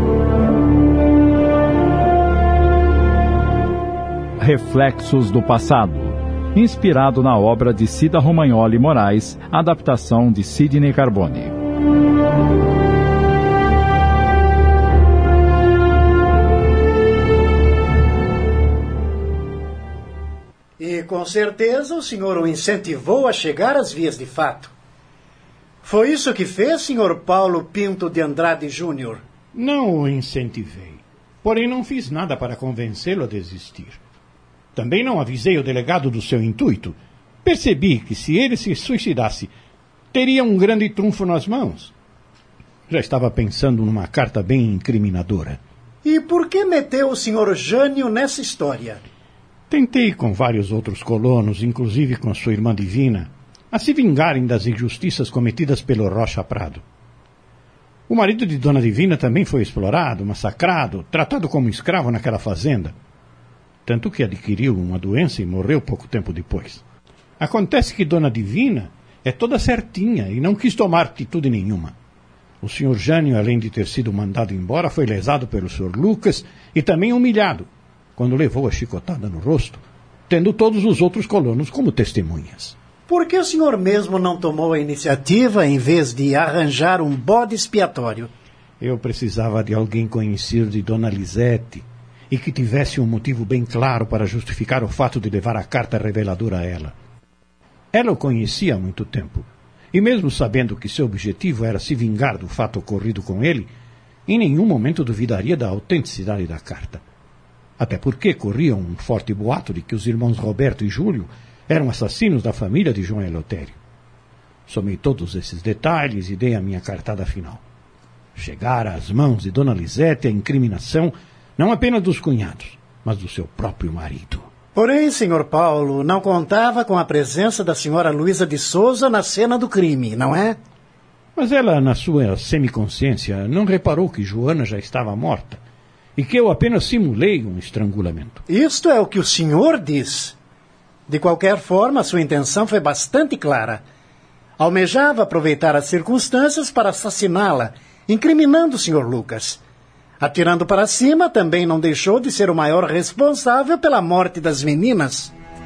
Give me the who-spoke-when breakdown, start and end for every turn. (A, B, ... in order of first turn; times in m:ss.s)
0:04.4-0:11.5 A
0:20.8-0:24.7 B
0:25.8-0:29.2 B
0:29.5-0:34.0 C
0:34.8-0:39.5 C
0:40.1-0:41.9 C
0:42.9-0:45.6 C
0:46.0-0:49.0 B
0:49.7-0:56.8 C
0:58.1-1:03.0 C
1:03.8-1:06.8 C
1:07.4-1:11.9 C
1:12.6-1:22.8 C
1:23.1-1:28.3 B
1:28.8-1:36.9 C
1:37.9-1:43.7 C
1:44.3-1:47.0 C
1:47.8-1:53.8 C
1:54.7-1:57.6 C
1:58.4-2:04.5 C
2:04.7-2:10.6 B
2:11.4-2:15.6 C
2:16.2-2:18.4 C
2:18.5-2:20.4 B
2:21.1-2:23.8 B
2:24.6-2:29.6 B
2:30.2-2:35.3 B